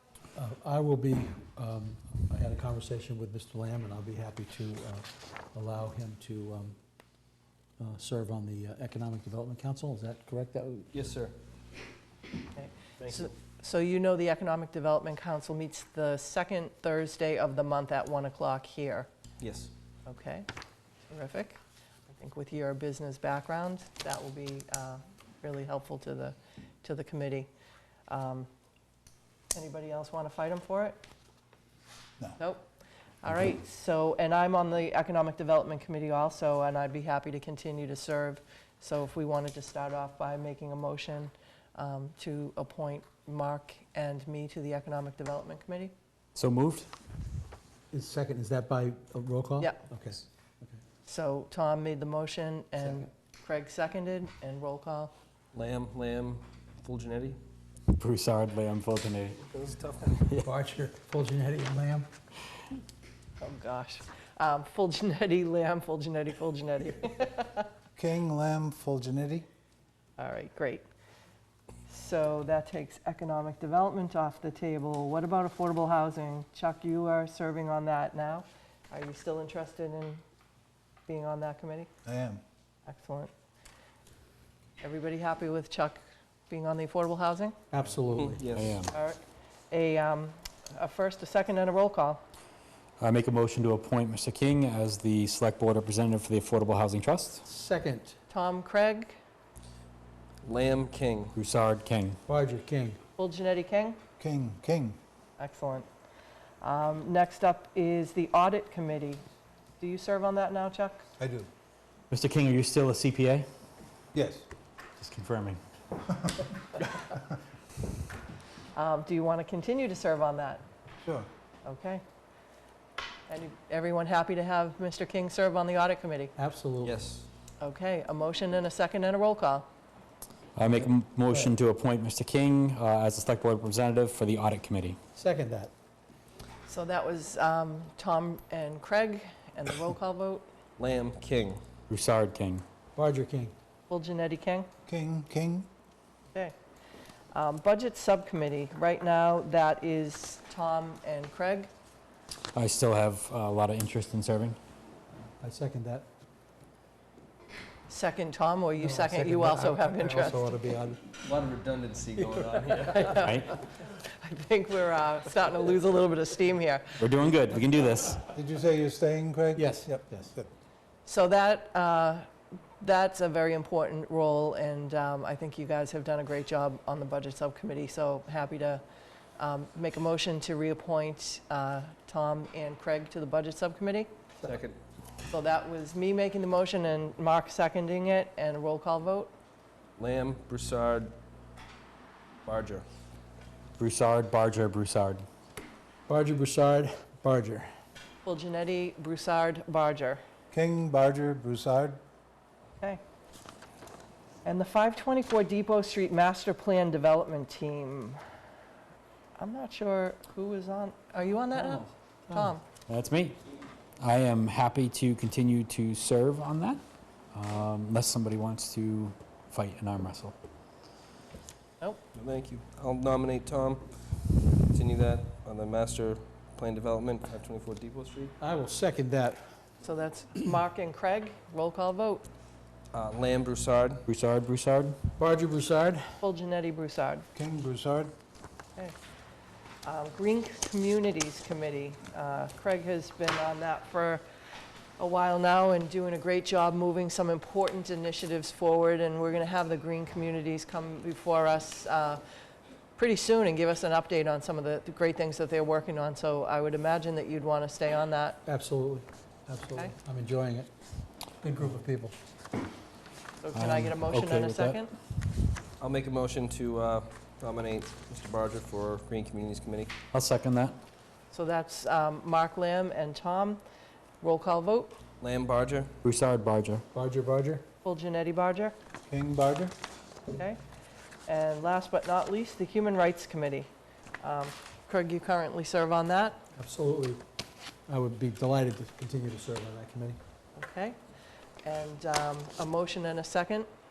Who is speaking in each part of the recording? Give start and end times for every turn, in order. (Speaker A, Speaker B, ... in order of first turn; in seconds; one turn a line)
Speaker A: 0.4-6.8
Speaker A: 7.8-10.9
Speaker B: 10.9-11.3
Speaker C: 12.6-19.1
Speaker B: 13.0-13.3
Speaker B: 19.4-19.7
Speaker C: 20.1-20.5
Speaker C: 21.1-27.5
Speaker C: 28.1-28.5
Speaker C: 29.5-31.0
Speaker C: 32.4-32.7
Speaker C: 33.2-45.9
Speaker D: 46.4-46.9
Speaker A: 47.9-50.8
Speaker C: 51.1-55.1
Speaker B: 55.5-57.4
Speaker D: 58.0-59.5
Speaker B: 59.5-60.2
Speaker A: 60.4-62.1
Speaker C: 63.4-67.7
Speaker E: 68.0-69.5
Speaker C: 70.2-70.8
Speaker C: 71.9-80.2
Speaker C: 81.1-81.9
Speaker E: 82.0-82.4
Speaker C: 82.9-83.3
Speaker C: 84.8-87.6
Speaker A: 87.7-88.4
Speaker B: 88.2-88.9
Speaker D: 88.6-88.9
Speaker C: 88.9-92.2
Speaker D: 93.0-97.5
Speaker A: 97.5-98.2
Speaker C: 98.3-99.2
Speaker B: 100.5-101.4
Speaker D: 101.4-102.2
Speaker A: 102.3-103.0
Speaker C: 103.2-104.0
Speaker E: 104.2-105.0
Speaker C: 105.4-105.9
Speaker C: 106.6-109.2
Speaker C: 109.8-111.0
Speaker E: 111.2-111.5
Speaker D: 112.1-113.5
Speaker E: 114.1-114.5
Speaker D: 115.0-115.6
Speaker E: 116.1-117.2
Speaker C: 118.8-120.6
Speaker C: 121.7-122.0
Speaker C: 123.3-126.3
Speaker A: 126.4-127.0
Speaker B: 126.8-127.3
Speaker C: 127.6-129.7
Speaker D: 130.6-135.0
Speaker A: 130.6-131.5
Speaker A: 135.2-135.7
Speaker C: 136.7-140.4
Speaker B: 140.8-141.6
Speaker D: 141.9-142.6
Speaker A: 143.0-143.5
Speaker C: 143.9-144.7
Speaker E: 144.9-145.7
Speaker C: 147.3-151.7
Speaker D: 152.6-154.6
Speaker A: 155.4-156.1
Speaker C: 157.9-160.5
Speaker A: 158.8-161.0
Speaker B: 161.2-163.2
Speaker C: 162.7-167.1
Speaker D: 163.1-163.5
Speaker D: 167.0-168.3
Speaker E: 168.3-170.5
Speaker A: 169.6-170.3
Speaker C: 171.1-172.3
Speaker C: 172.8-178.8
Speaker C: 179.4-184.2
Speaker B: 184.4-184.8
Speaker C: 185.3-189.3
Speaker B: 190.0-191.2
Speaker B: 192.5-192.8
Speaker D: 193.8-195.2
Speaker A: 196.1-197.7
Speaker C: 198.2-200.2
Speaker E: 200.5-202.0
Speaker C: 204.4-208.2
Speaker C: 209.4-212.6
Speaker A: 211.5-212.5
Speaker D: 212.9-213.4
Speaker D: 214.0-216.8
Speaker D: 217.3-220.4
Speaker B: 222.1-223.9
Speaker B: 224.7-228.3
Speaker A: 228.4-229.6
Speaker C: 229.8-232.3
Speaker B: 232.9-234.0
Speaker D: 234.1-235.0
Speaker A: 235.2-236.2
Speaker C: 236.2-237.3
Speaker E: 237.3-238.1
Speaker C: 239.8-244.2
Speaker C: 245.0-252.2
Speaker C: 253.0-258.4
Speaker A: 258.5-260.7
Speaker A: 261.4-262.1
Speaker C: 263.4-264.9
Speaker D: 263.6-264.8
Speaker B: 265.8-269.9
Speaker D: 270.1-270.8
Speaker C: 271.3-273.6
Speaker C: 274.2-275.0
Speaker B: 275.2-275.9
Speaker D: 276.0-276.8
Speaker A: 276.9-277.7
Speaker C: 277.8-278.8
Speaker E: 279.1-279.7
Speaker C: 280.4-280.6
Speaker C: 281.3-283.7
Speaker C: 284.2-286.4
Speaker A: 286.6-287.2
Speaker A: 287.9-290.2
Speaker C: 290.6-291.0
Speaker C: 291.6-293.7